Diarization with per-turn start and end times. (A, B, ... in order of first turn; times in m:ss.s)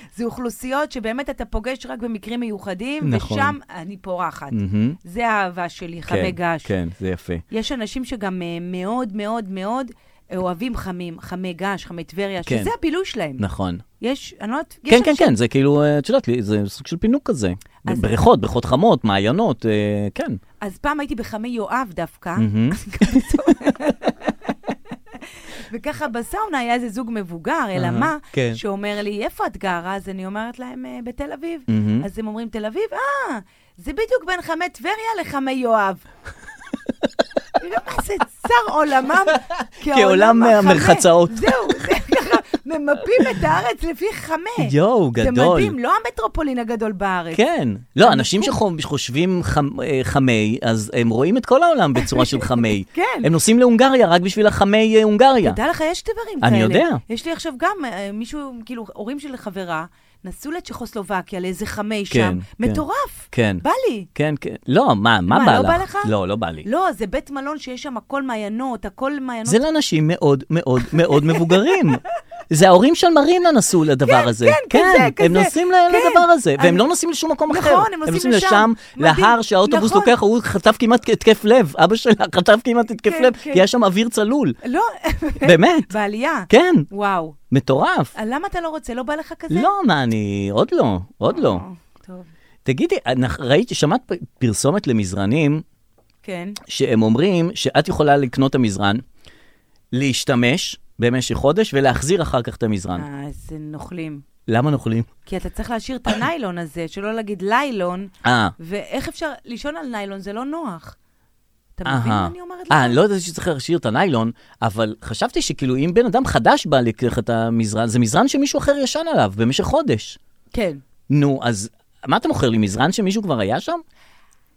0:00.2-0:06.7 A
0:03.0-0:03.6 B
0:04.5-0:05.0 B
0:06.1-0:07.4 B
0:07.5-0:13.4 A
0:12.4-0:12.7 B
0:13.4-0:13.8 B
0:14.0-0:15.3 A
0:14.9-0:20.4 B
0:17.8-0:18.2 A
0:20.6-0:24.8 A
0:22.4-0:23.6 B
0:25.7-0:36.0 A
0:27.8-0:28.6 B
0:31.7-0:32.1 B
0:37.6-0:47.4 A
0:39.5-0:41.8 B
0:44.6-0:45.8 B
0:47.3-0:55.6 B
0:48.0-0:48.6 A
0:52.0-0:53.3 A
0:55.4-1:04.1 A
0:56.4-0:57.0 B
1:02.1-1:03.6 B
1:04.2-1:06.7 B
1:05.3-1:06.1 A
1:06.6-1:09.6 A
1:09.5-1:24.6 B
1:11.1-1:11.7 A
1:14.0-1:16.9 A
1:17.5-1:20.1 A
1:23.0-1:23.7 A
1:24.6-1:27.4 A
1:25.4-1:25.9 B
1:26.5-1:26.9 B
1:27.5-1:28.1 B
1:28.2-1:29.7 A
1:29.5-1:31.6 B
1:31.3-1:32.3 A
1:32.6-1:35.6 B
1:36.2-1:36.6 A
1:36.7-1:39.0 B
1:39.9-1:43.0 B
1:43.0-1:44.2 A
1:44.5-1:45.1 B
1:45.3-1:51.0 A
1:48.2-1:48.5 B
1:51.8-1:53.0 A
1:51.9-2:00.2 B
2:00.5-2:00.8 A
2:01.1-2:03.8 B